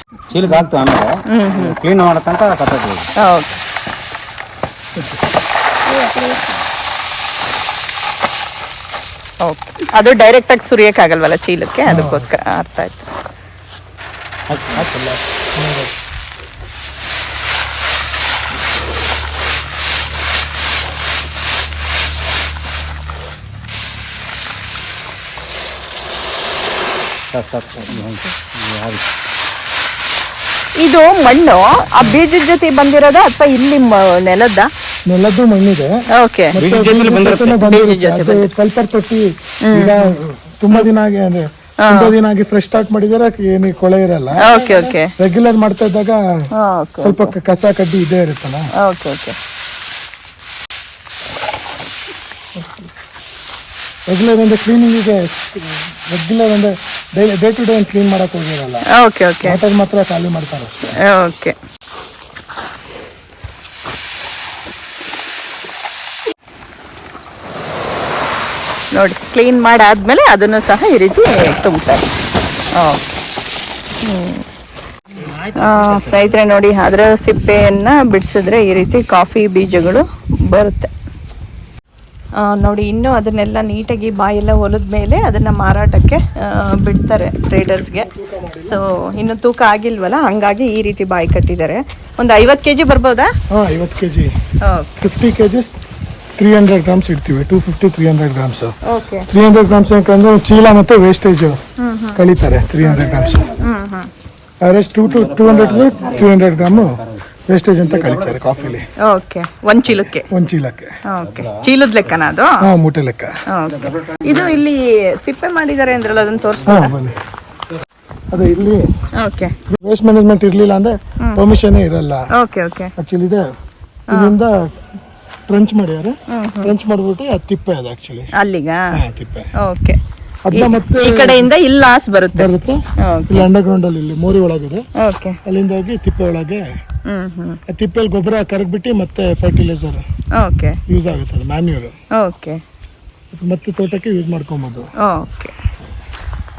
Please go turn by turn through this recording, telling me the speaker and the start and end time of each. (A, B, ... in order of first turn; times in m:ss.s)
0:00.3-0:03.1 A
0:01.3-0:01.7 B
0:03.2-0:03.6 B
0:05.9-0:06.5 A
0:09.4-0:13.1 B
0:11.9-0:12.3 C
0:14.5-0:14.9 A
0:14.7-0:15.9 C
0:27.3-0:29.0 A
0:27.9-0:28.3 B
0:30.8-0:34.7 B
0:35.1-0:35.9 C
0:36.2-0:36.6 B
0:36.5-0:46.2 C
0:36.6-0:37.6 A
0:37.6-0:38.5 B
0:39.6-0:40.1 B
0:41.8-0:42.2 B
0:44.4-0:45.1 B
0:46.6-0:47.3 B
0:47.0-0:48.6 C
0:48.8-0:49.4 B
0:52.6-0:52.8 C
0:54.1-0:58.8 C
0:58.9-0:59.6 B
0:59.4-1:01.0 C
1:01.0-1:01.6 B
1:09.0-1:12.1 B
1:12.8-1:13.0 B
1:14.0-1:14.4 B
1:15.1-1:16.4 A
1:15.6-1:20.9 B
1:22.4-1:28.1 B
1:27.9-1:28.8 C
1:28.6-1:33.3 B
1:33.5-1:34.3 C
1:34.6-1:35.1 B
1:35.0-1:35.7 C
1:36.4-1:38.8 C
1:38.8-1:39.3 B
1:39.3-1:41.6 C
1:41.8-1:42.2 B
1:42.2-1:43.5 C
1:43.0-1:43.5 A
1:43.6-1:44.1 B
1:44.6-1:47.0 C
1:45.0-1:47.2 A
1:47.5-1:48.8 C
1:47.8-1:48.8 A
1:49.0-1:50.3 B
1:50.3-1:50.9 C
1:51.1-1:52.6 B
1:51.2-1:52.2 A
1:52.6-1:53.3 C
1:53.5-1:56.9 B
1:53.7-1:54.6 A
1:56.6-1:57.2 C
1:58.3-1:58.8 C
1:59.2-1:59.5 B
1:59.7-2:02.2 C
2:02.3-2:02.9 B
2:03.0-2:03.4 C
2:04.1-2:04.4 B
2:04.1-2:04.6 C
2:05.5-2:08.3 C
2:06.3-2:06.7 B
2:08.4-2:09.0 B
2:08.9-2:09.5 C
2:09.6-2:10.0 B
2:10.5-2:11.5 C
2:10.5-2:13.5 B
2:12.3-2:14.8 C
2:15.0-2:15.4 B
2:15.4-2:16.6 C
2:17.1-2:17.6 B
2:17.7-2:20.0 C
2:20.4-2:20.8 B
2:20.9-2:21.9 C
2:22.2-2:22.6 B
2:23.3-2:24.9 C
2:25.0-2:25.5 B